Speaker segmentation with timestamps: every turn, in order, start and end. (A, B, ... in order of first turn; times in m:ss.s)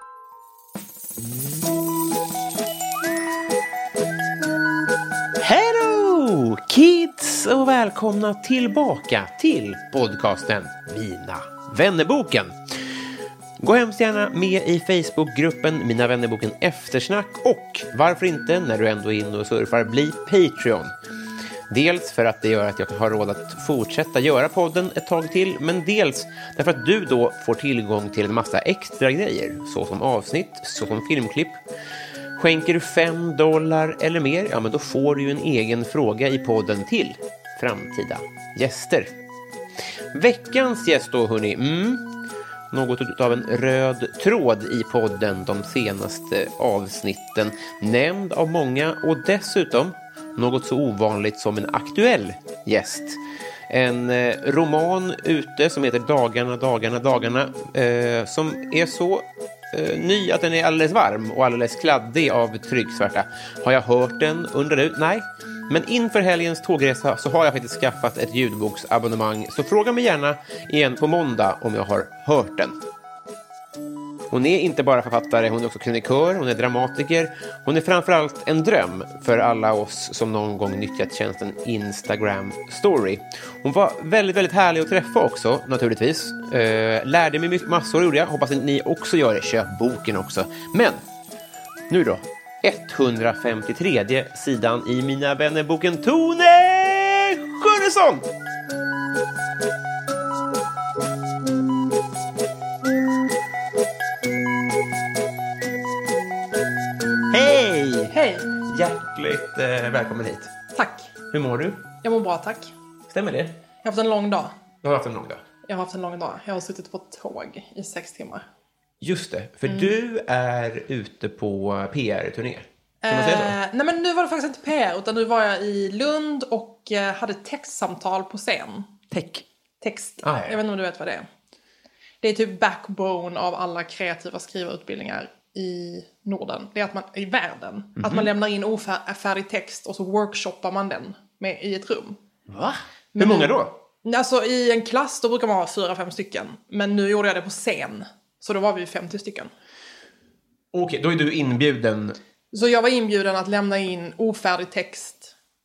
0:05.4-0:12.6 A
0:13.6-0:20.9 A
0:21.7-0:31.6 A
0:32.4-0:39.1 A
0:40.1-0:42.0 A
0:42.7-0:53.2 A
0:53.7-1:12.8 A
1:14.3-1:31.0 A
1:31.9-1:38.3 A
1:47.3-1:50.5 A
1:48.1-1:48.5 B
1:50.8-1:51.1 B
1:51.3-1:51.9 A
1:52.0-1:52.7 B
1:53.1-1:53.6 A
1:53.8-1:54.5 B
1:54.8-1:55.4 A
1:55.7-1:58.5 B
1:59.0-2:03.6 A
2:03.0-2:08.9 B
2:09.1-2:09.4 A
2:09.8-2:11.3 B
2:10.2-2:10.6 A
2:12.2-2:22.2 B
2:18.0-2:18.3 A
2:22.5-2:23.7 A
2:23.2-2:29.5 B
2:30.7-2:32.2 A
2:32.5-2:35.3 B